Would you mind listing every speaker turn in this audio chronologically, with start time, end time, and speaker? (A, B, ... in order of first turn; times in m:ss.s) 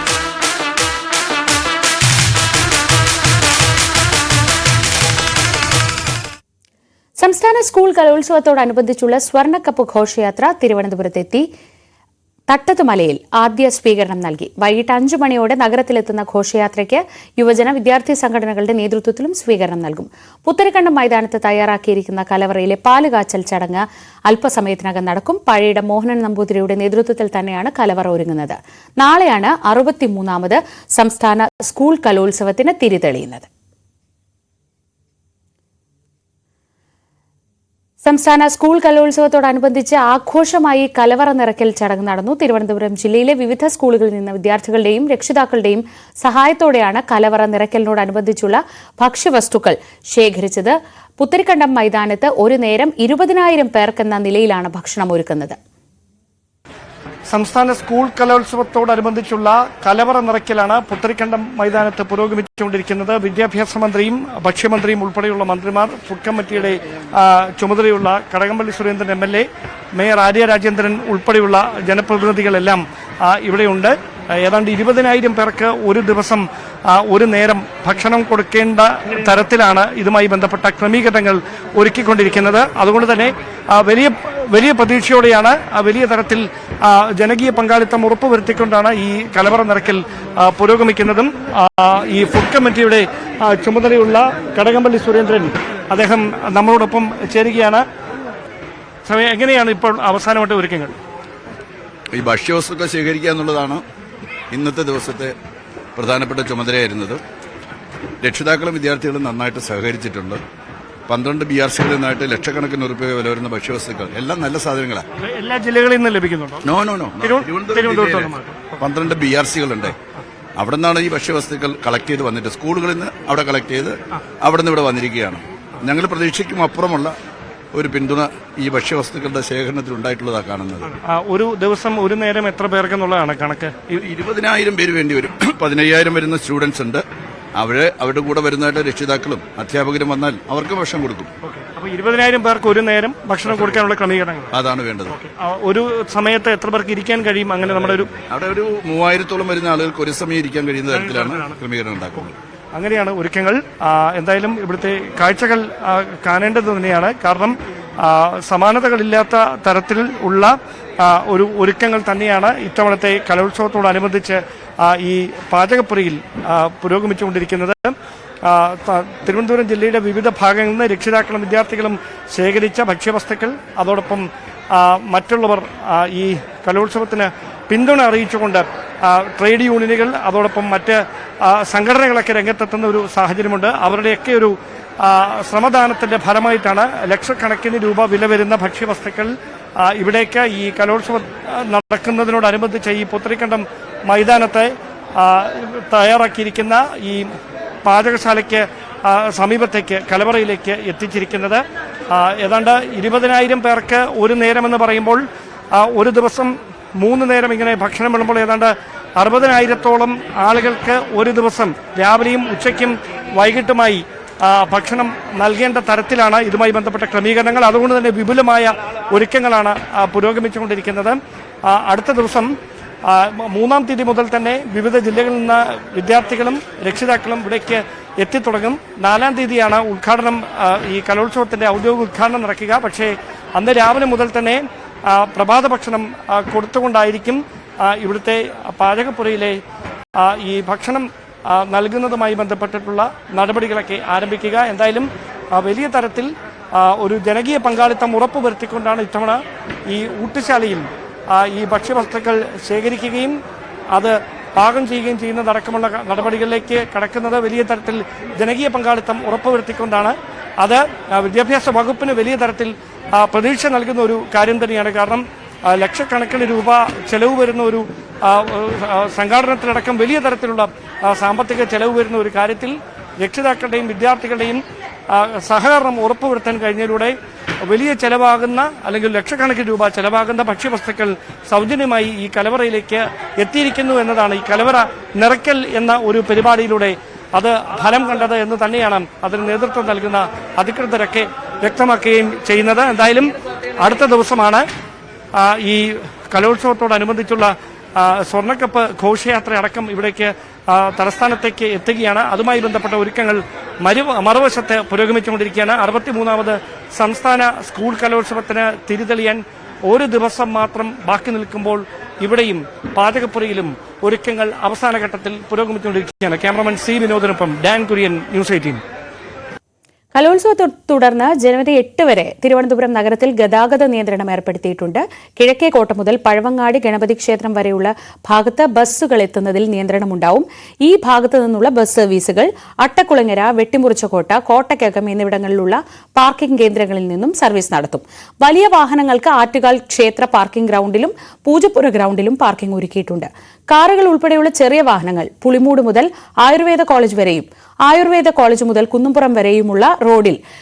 0:07.2-0:11.4 A
0:12.5-0:33.5 A
0:38.0-0:55.6 A
0:57.3-1:37.8 B
1:39.0-1:41.0 B
1:42.1-1:43.8 C
1:44.5-1:45.3 C
1:46.0-1:47.2 C
1:48.2-1:50.4 C
1:51.1-1:55.0 C
1:55.2-1:56.7 B
1:56.6-2:00.0 C
1:57.2-1:58.7 B
2:00.6-2:07.2 C
2:07.7-2:11.0 C
2:11.0-2:14.0 B
2:14.0-2:17.0 C
2:17.6-2:21.3 C
2:21.4-2:24.6 B
2:24.5-2:25.2 C
2:25.1-2:28.1 B
2:28.3-2:32.4 C
2:30.9-2:31.5 B
2:32.7-3:42.5 B
3:43.0-3:59.6 B
4:00.2-4:13.4 B
4:13.9-4:54.7 B
4:55.3-5:18.8 B
5:20.2-5:50.4 A